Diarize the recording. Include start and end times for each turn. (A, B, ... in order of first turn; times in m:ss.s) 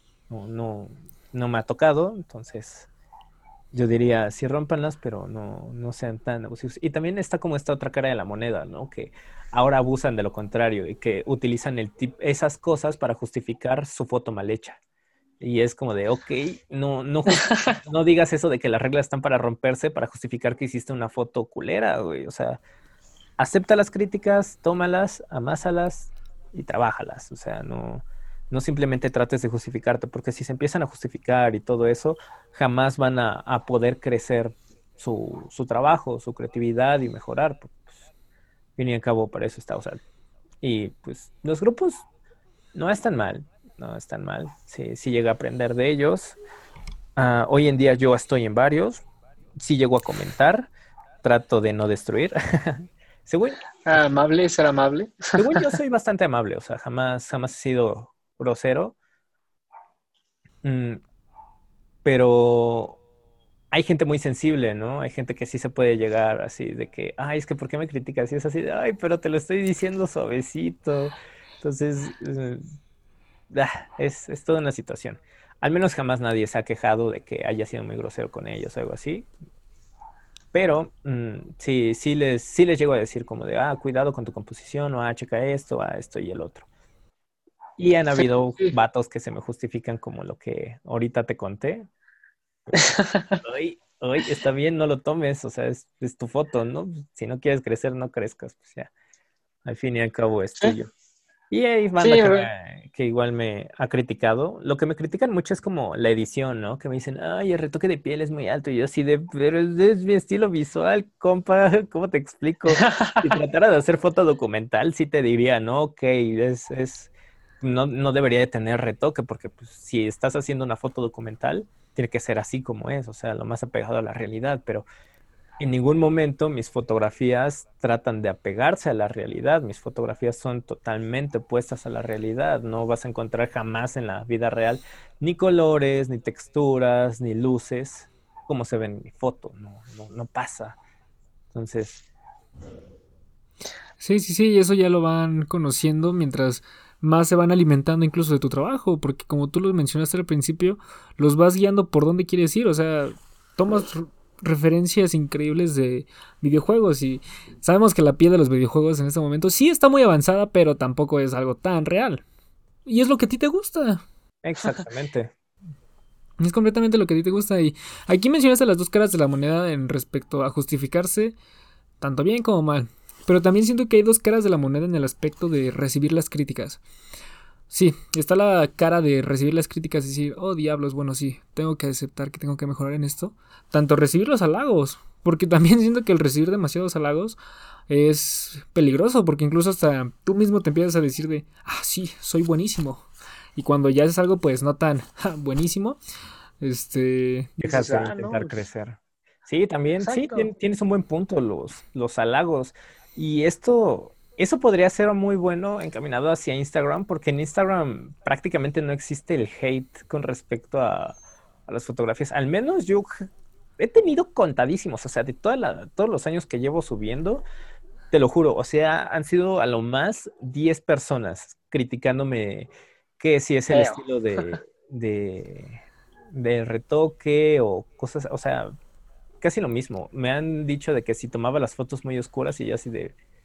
0:00.3-0:02.9 A
0:03.7-0:14.8 A
0:15.4-0:22.6 A
0:17.4-0:17.7 B
0:23.4-0:38.1 A
0:38.8-0:40.0 A
0:40.6-0:42.0 A
0:42.7-0:46.4 A
0:47.2-0:49.0 A
0:49.6-0:50.7 A
0:51.2-0:53.6 A
0:53.9-0:55.8 B
0:55.4-0:59.0 A
1:00.6-1:01.0 A
1:02.0-1:03.0 A
1:03.7-1:12.6 A
1:13.5-1:19.3 A
1:20.5-1:26.7 A
1:27.8-1:31.9 A
1:32.7-1:33.4 B
1:33.4-1:38.9 A
1:39.6-1:40.9 A
1:41.5-2:04.9 A
1:42.0-1:42.5 B
1:52.8-1:53.3 B
2:05.6-2:20.8 A
2:21.5-2:22.0 A
2:24.0-2:42.2 C
2:42.9-2:44.0 C
2:44.4-2:45.3 A
2:46.4-2:51.4 C
2:52.0-2:56.8 C
2:57.7-3:07.4 C
3:07.9-3:16.0 C
3:16.6-3:17.6 C
3:17.6-3:33.2 A
3:17.6-3:18.6 B
3:20.0-3:20.5 B
3:33.8-3:37.4 A
3:38.1-3:45.8 A
3:43.7-3:44.6 B
3:46.3-3:48.7 A
3:49.4-3:53.1 A